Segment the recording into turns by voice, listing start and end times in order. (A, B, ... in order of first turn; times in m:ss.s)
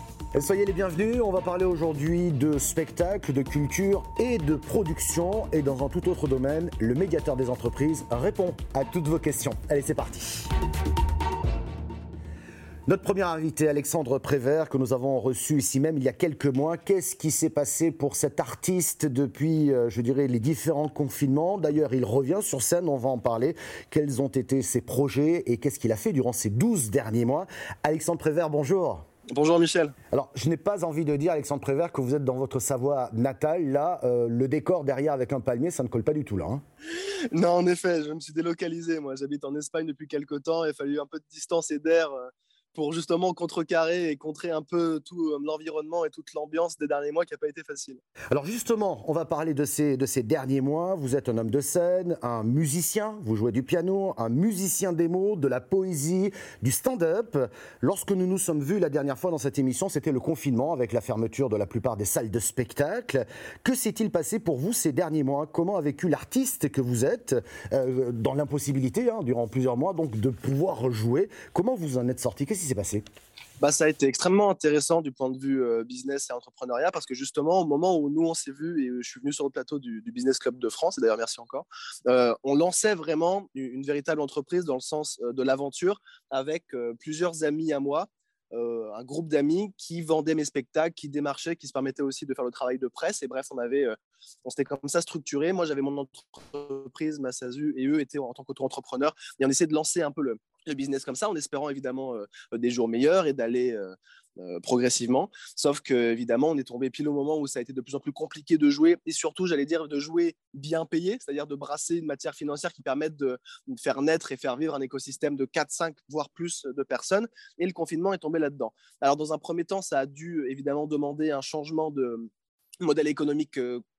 0:00.3-0:10.5 A
0:12.9-0:29.1 A
0:29.3-0:30.0 B
0:30.1-0:36.6 A
0:37.3-0:48.0 B
0:48.3-1:13.0 A
1:13.6-2:02.3 B
2:02.8-2:03.8 B